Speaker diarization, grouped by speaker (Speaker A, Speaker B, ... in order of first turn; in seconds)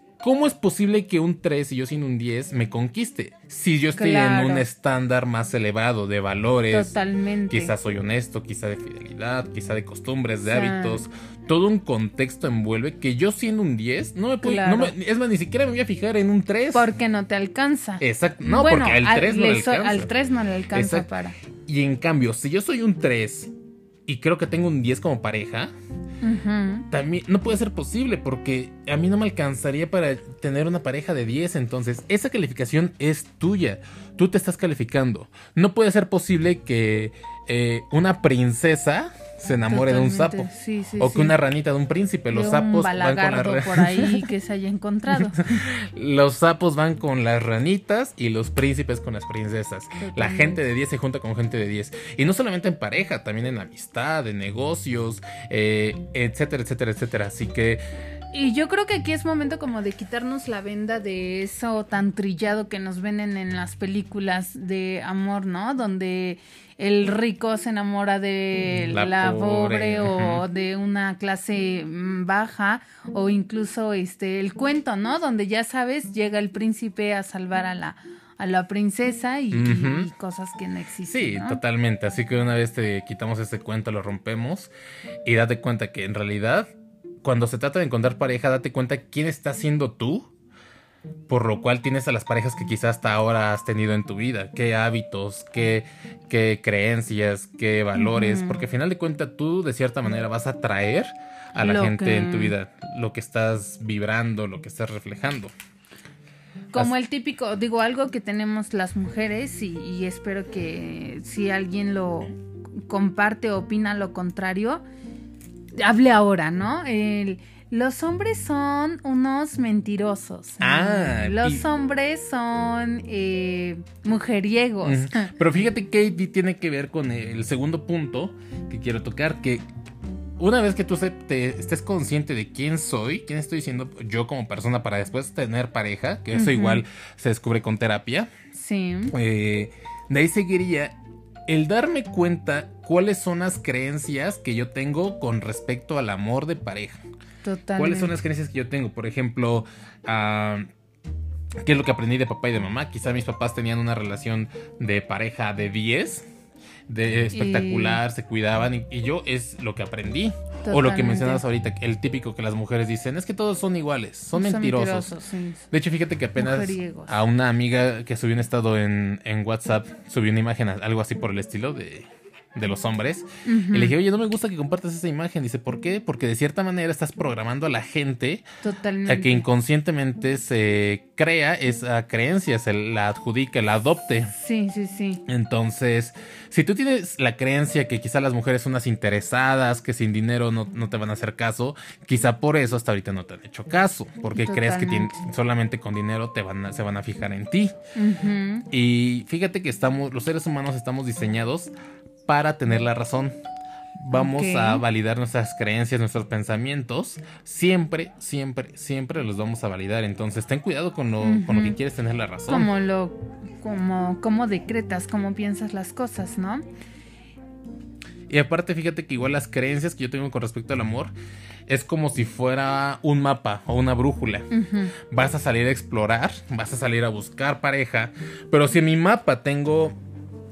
Speaker A: 0.2-6.9, 7.5-16.9, 18.0-20.1, 20.7-21.1, 21.7-23.5, 24.1-25.7, 26.9-44.2, 45.1-57.8, 68.9-70.4, 79.5-80.1, 81.1-84.7, 85.3-86.7, 87.2-90.3, 91.3-105.5, 120.6-121.6, 124.8-129.6, 130.4-138.3, 139.1-140.9, 141.5-147.0, 147.8-150.7, 151.7-156.3, 156.9-165.1, 165.7-178.4, 179.1-184.3, 185.3-197.8, 198.7-201.7, 202.3-203.4, 204.0-212.7, 218.3-221.1, 221.7-229.9
Speaker B: 3.9-4.7, 6.7-7.7, 10.5-11.1, 14.4-14.9, 16.7-21.4, 26.2-26.9, 39.7-41.4, 42.3-45.6, 50.0-50.6, 58.3-81.6, 98.0-98.6, 101.6-102.5, 106.7-114.8, 115.8-125.3, 136.3-136.8, 138.5-139.1, 147.4-148.1, 157.3-158.0, 160.7-161.4, 164.3-165.7, 166.4-167.1, 173.4-174.0, 178.6-179.4, 184.3-185.2, 194.4-195.2, 198.0-198.7, 204.1-204.8, 211.2-211.8, 212.5-216.7, 224.5-224.9